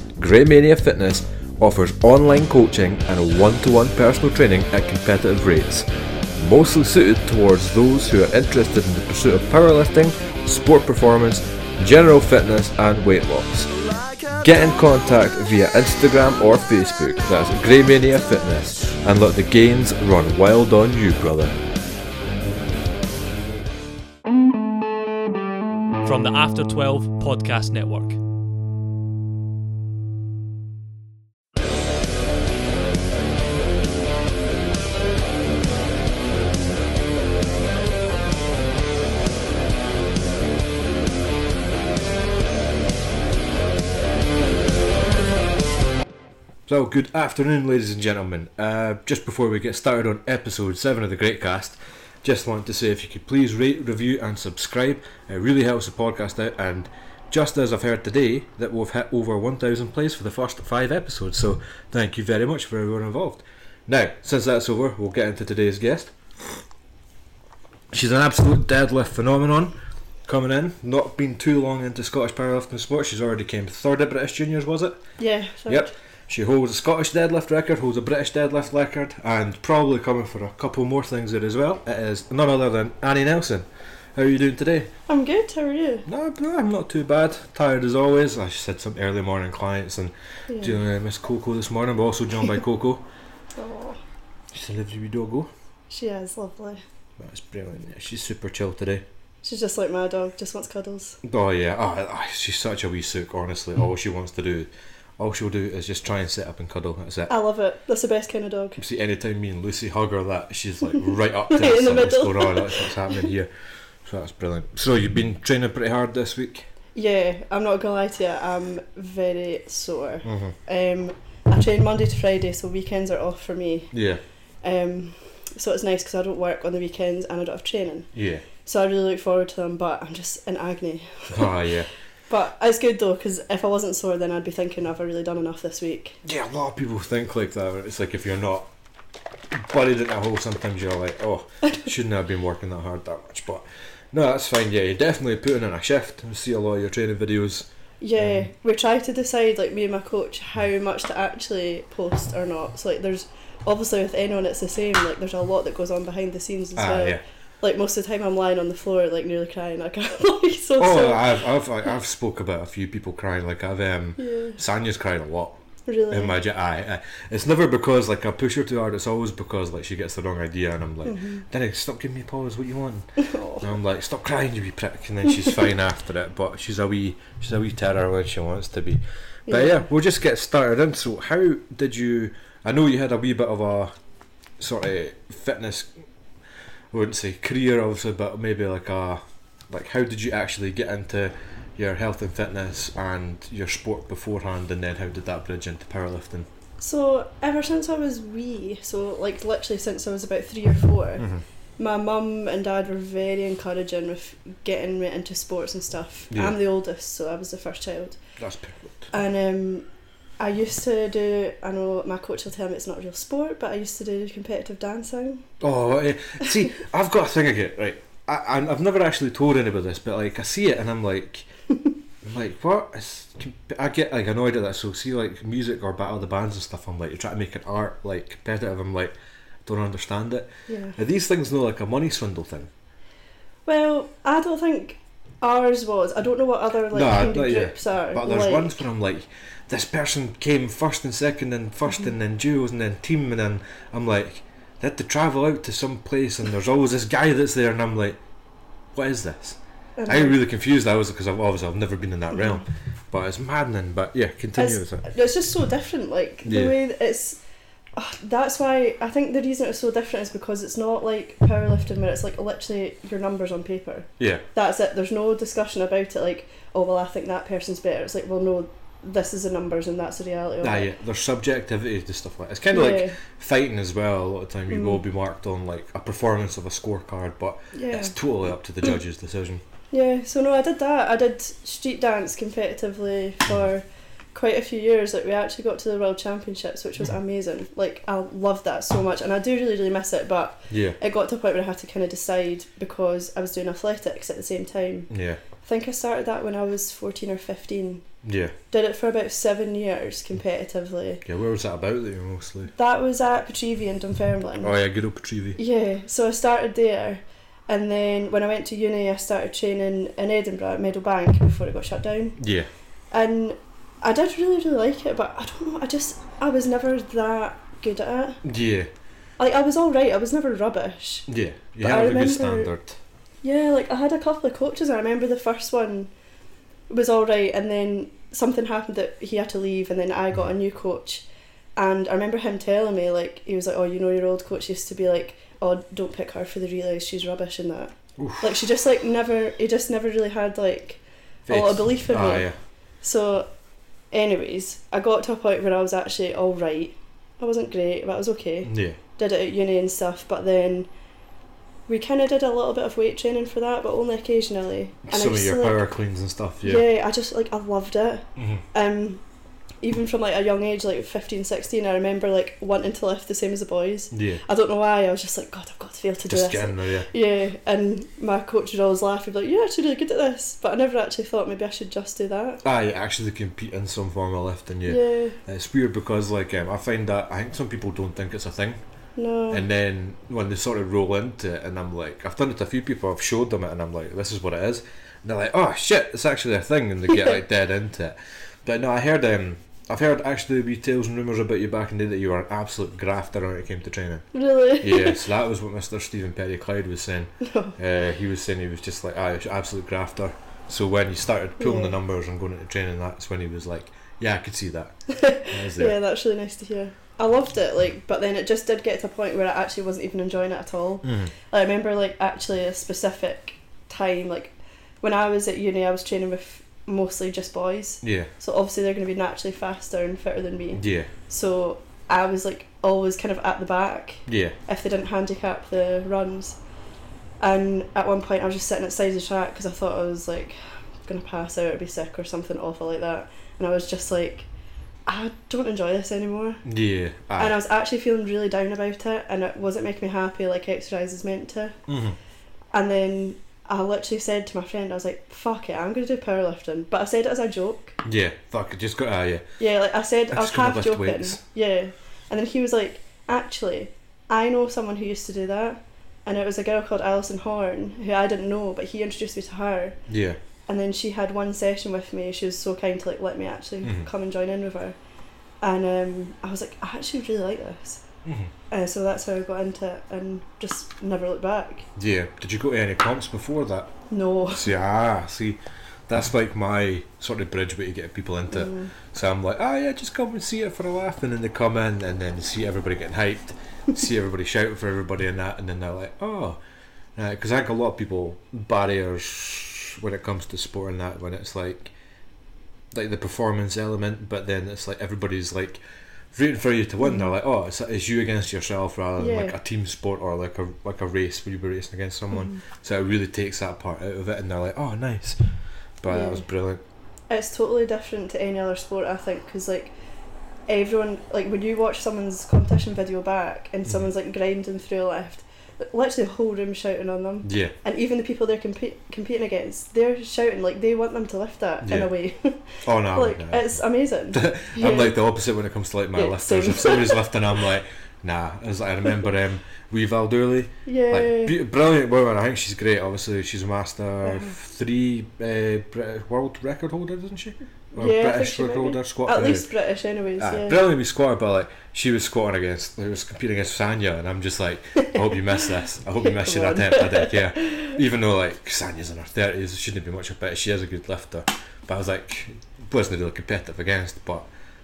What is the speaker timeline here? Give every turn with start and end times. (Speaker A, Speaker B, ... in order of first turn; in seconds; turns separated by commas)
Speaker A: 0.2-13.7, Speaker A: 14.3-21.6, Speaker B: 26.0-28.2, Speaker A: 46.7-66.1, Speaker A: 67.9-69.8, Speaker A: 70.3-75.0, Speaker C: 75.2-75.9, Speaker A: 75.7-84.9, Speaker C: 85.1-86.1, Speaker A: 86.1-93.0, Speaker C: 90.5-90.8, Speaker C: 93.5-94.0, Speaker A: 94.5-95.5, Speaker C: 95.9-96.8, Speaker A: 97.2-99.0, Speaker C: 99.4-101.2, Speaker A: 101.2-107.3, Speaker C: 107.3-108.8, Speaker A: 108.8-113.5, Speaker C: 111.5-113.2, Speaker A: 114.0-116.7, Speaker C: 117.0-123.9, Speaker A: 120.2-120.5, Speaker A: 123.9-124.2, Speaker C: 124.6-128.1, Speaker A: 128.1-128.4, Speaker C: 128.7-131.6, Speaker A: 131.3-131.9, Speaker C: 132.3-136.2, Speaker A: 136.2-138.7, Speaker A: 139.5-147.7, Speaker C: 148.0-161.4, Speaker A: 148.2-148.5, Speaker A: 156.8-157.2, Speaker A: 160.8-165.6, Speaker C: 164.2-164.6, Speaker C: 165.9-166.4, Speaker A: 166.1-173.1, Speaker C: 171.1-171.4, Speaker C: 173.2-173.7, Speaker A: 173.6-183.9, Speaker C: 179.5-179.8, Speaker A: 184.6-185.9, Speaker A: 186.9-196.5, Speaker C: 196.8-201.3, Speaker C: 201.8-208.2, Speaker A: 206.3-206.6, Speaker A: 208.4-209.1, Speaker C: 209.1-209.8, Speaker C: 210.4-215.4, Speaker A: 215.6-221.5, Speaker A: 222.2-229.1, Speaker A: 229.7-232.7, Speaker C: 230.7-231.0, Speaker C: 233.7-238.8, Speaker A: 236.9-248.2, Speaker A: 248.9-255.1, Speaker C: 250.0-250.4, Speaker C: 254.6-257.4, Speaker A: 256.5-256.8, Speaker C: 258.0-270.9, Speaker A: 264.2-264.4, Speaker A: 270.6-279.6, Speaker C: 272.7-273.2, Speaker C: 274.7-275.0, Speaker C: 277.7-278.1, Speaker C: 279.9-295.1, Speaker A: 290.7-291.0, Speaker A: 295.1-295.4, Speaker C: 295.6-298.1, Speaker A: 298.2-298.5, Speaker C: 298.7-301.2, Speaker A: 301.2-302.7, Speaker C: 302.8-304.7, Speaker A: 304.6-305.6, Speaker C: 305.6-312.4, Speaker A: 312.4-312.7, Speaker C: 313.1-318.4, Speaker A: 318.4-318.9, Speaker C: 319.4-321.3, Speaker A: 321.3-323.0, Speaker C: 321.8-322.7, Speaker C: 323.4-326.1, Speaker C: 326.9-331.2, Speaker C: 331.8-342.5, Speaker A: 338.2-338.6, Speaker A: 341.5-342.6, Speaker C: 343.0-343.5, Speaker C: 344.1-350.9, Speaker A: 348.6-349.0, Speaker C: 351.9-355.8, Speaker A: 355.1-356.9, Speaker C: 356.6-359.2, Speaker A: 358.4-358.6, Speaker C: 359.8-372.6, Speaker A: 364.1-364.4, Speaker A: 366.3-367.1, Speaker A: 372.6-378.8, Speaker C: 374.9-375.4, Speaker C: 379.2-379.6, Speaker A: 379.5-394.3, Speaker C: 394.3-395.2, Speaker A: 394.8-405.0, Speaker C: 397.4-397.8, Speaker C: 401.6-401.9, Speaker C: 405.1-426.6, Speaker A: 405.5-406.0, Speaker A: 411.0-411.3, Speaker A: 418.0-418.3, Speaker A: 420.8-421.1, Speaker A: 424.3-424.6, Speaker C: 427.4-434.5, Speaker C: 435.1-436.6, Speaker A: 436.6-437.6, Speaker C: 437.4-441.8, Speaker A: 441.9-442.2, Speaker C: 442.7-448.0, Speaker A: 448.0-449.4, Speaker C: 449.6-460.0, Speaker A: 450.3-451.4, Speaker A: 460.1-460.4, Speaker C: 460.7-465.0, Speaker A: 463.8-464.1, Speaker C: 465.6-468.0, Speaker A: 468.2-468.5, Speaker C: 468.7-471.9, Speaker A: 472.0-473.9, Speaker C: 474.1-474.7, Speaker A: 474.5-486.6, Speaker C: 478.5-478.9, Speaker A: 487.2-491.9, Speaker A: 492.9-495.8, Speaker A: 496.3-505.4, Speaker C: 497.0-497.3, Speaker C: 499.2-499.6, Speaker A: 506.0-506.8, Speaker C: 506.1-506.4, Speaker C: 507.3-509.9, Speaker C: 510.7-525.1, Speaker A: 517.4-517.8, Speaker A: 521.8-522.1, Speaker A: 522.8-523.8, Speaker A: 524.3-539.7, Speaker C: 526.1-527.6, Speaker C: 530.9-531.6, Speaker C: 534.2-534.5, Speaker C: 538.0-540.8, Speaker A: 540.4-554.5, Speaker C: 546.2-548.0